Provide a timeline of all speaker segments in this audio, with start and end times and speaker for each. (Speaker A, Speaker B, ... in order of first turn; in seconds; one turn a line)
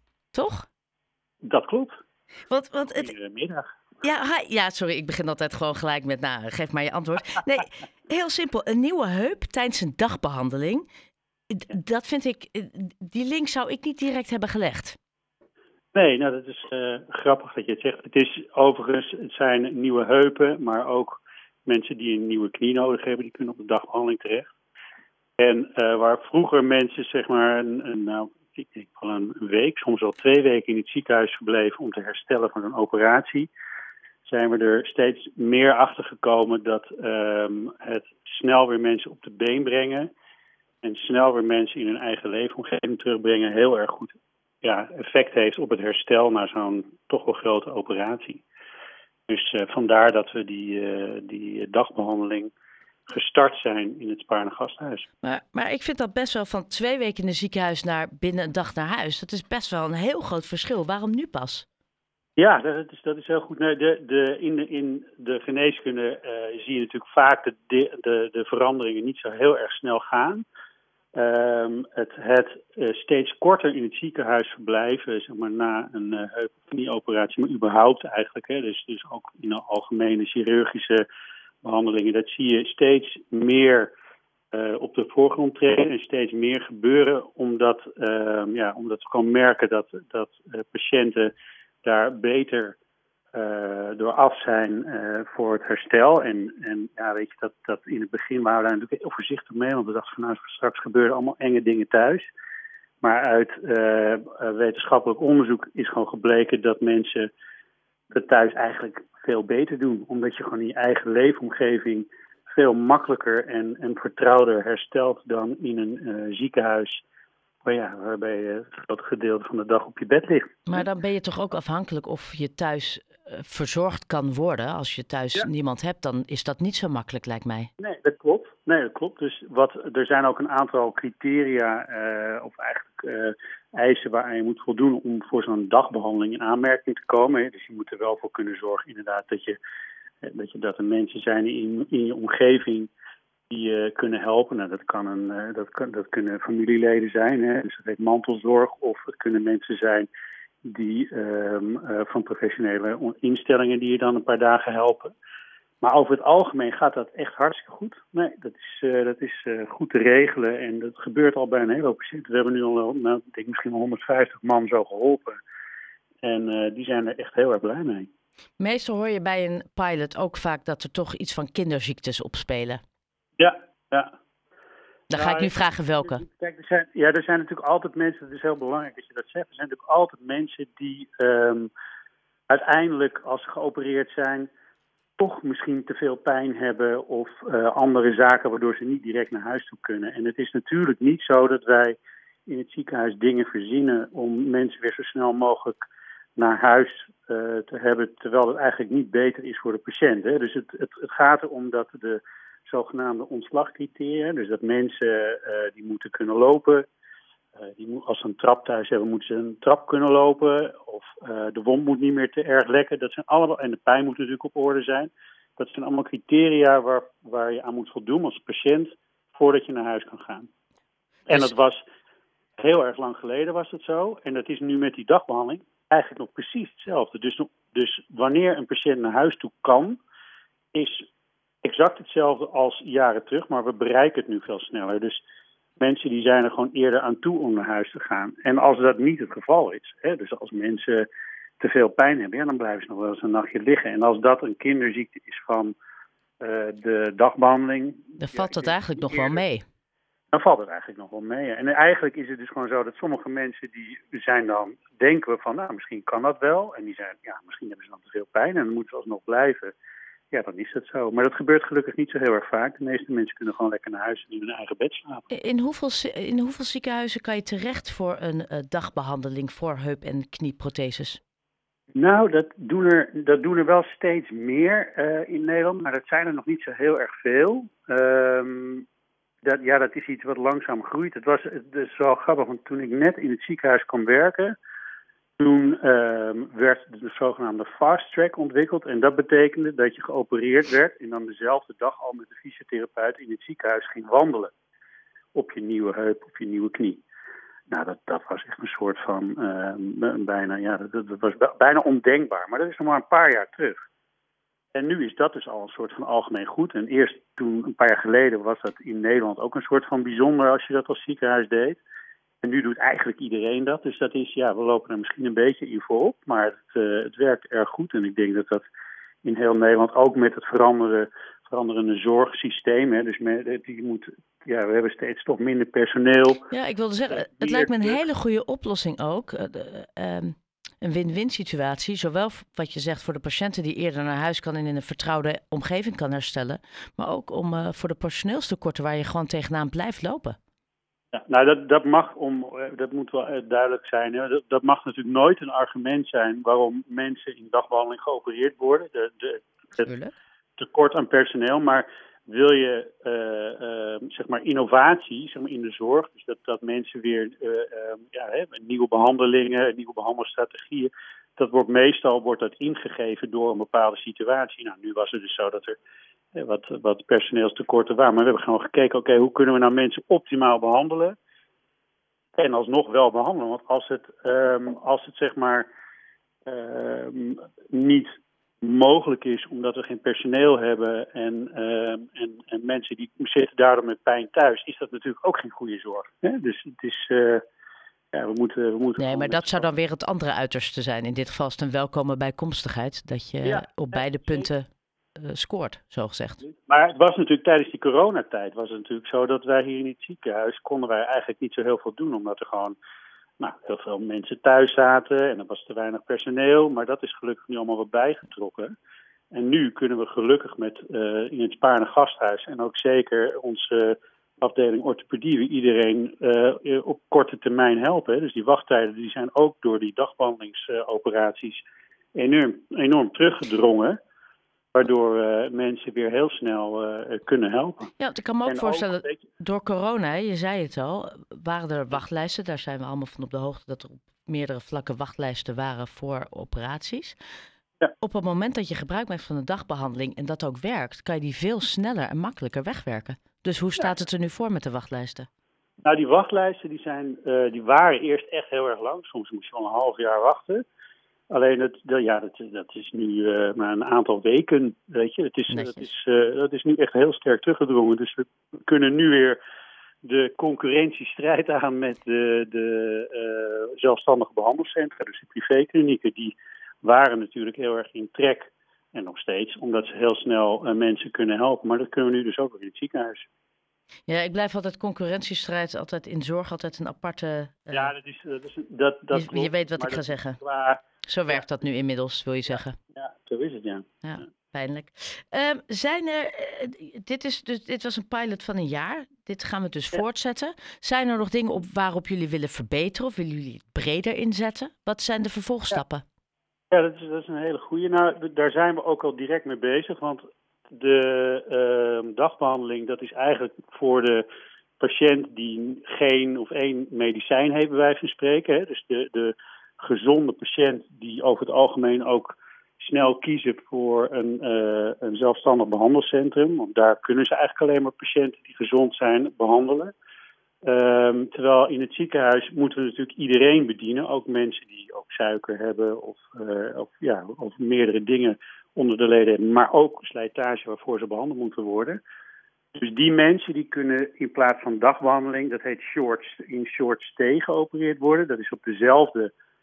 Speaker A: 0.3-0.7
Speaker B: 1.5-1.9
Speaker A: 2.5-3.1
Speaker B: 3.0-3.7
Speaker A: 4.0-10.8
Speaker A: 11.5-15.0
Speaker B: 15.9-24.5
Speaker B: 25.4-33.5
Speaker B: 34.2-40.1
Speaker B: 40.8-48.4
Speaker B: 49.3-52.5
Speaker B: 53.1-55.1
Speaker A: 55.2-61.7
Speaker B: 62.4-70.5
Speaker B: 71.2-81.0
Speaker B: 81.6-83.9
Speaker B: 84.5-91.3
Speaker B: 91.8-92.8
Speaker B: 93.3-102.3
Speaker B: 103.0-107.3
Speaker B: 108.1-117.0
Speaker B: 117.6-120.9
Speaker A: 120.7-127.7
Speaker B: 127.8-139.6
Speaker B: 140.2-142.9
Speaker B: 143.5-150.1
Speaker B: 150.7-155.1
Speaker B: 155.8-165.4
Speaker B: 166.2-168.1
Speaker A: 168.6-172.8
Speaker B: 173.4-174.1
Speaker A: 175.1-176.2
Speaker B: 175.1-181.7
Speaker B: 182.5-184.5
Speaker B: 185.2-195.8
Speaker B: 196.4-206.9
Speaker B: 207.6-220.5
Speaker B: 221.3-221.8
Speaker B: 222.6-230.0
Speaker B: 230.7-231.1
Speaker B: 231.6-235.2
Speaker B: 235.8-241.1
Speaker B: 241.6-245.8
Speaker B: 246.4-249.4
Speaker A: 248.2-249.6
Speaker B: 250.3-259.8
Speaker B: 260.3-265.3
Speaker A: 265.3-271.2
Speaker B: 272.0-278.9
Speaker B: 279.4-284.6
Speaker B: 285.4-294.5
Speaker B: 295.4-297.0
Speaker B: 297.7-303.8
Speaker B: 304.7-311.8
Speaker B: 312.4-318.6
Speaker B: 319.2-326.5
Speaker A: 326.5-340.4
Speaker B: 327.1-328.0
Speaker B: 341.1-349.9
Speaker A: 349.8-350.1
Speaker B: 350.6-365.8
Speaker B: 366.4-371.2
Speaker B: 372.4-375.7
Speaker B: 376.5-378.1
Speaker B: 378.6-387.4
Speaker B: 388.1-389.7
Speaker A: 389.0-396.4
Speaker B: 393.4-394.5
Speaker B: 396.6-402.8
Speaker B: 403.4-408.7
Speaker B: 409.3-421.6
Speaker B: 422.2-424.0
Speaker B: 424.7-427.9
Speaker A: 428.0-437.2
Speaker B: 428.5-429.2
Speaker A: 438.0-445.3
Speaker B: 445.8-450.6
Speaker B: 451.3-459.4
Speaker A: 455.5-455.9
Speaker B: 460.0-473.3
Speaker A: 474.1-477.9
Speaker B: 477.7-481.4
Speaker A: 479.1-480.4
Speaker A: 481.1-482.8
Speaker B: 482.5-483.8
Speaker A: 484.0-496.0
Speaker B: 496.7-504.2
Speaker B: 504.8-519.9
Speaker B: 520.6-532.0
Speaker B: 532.8-539.3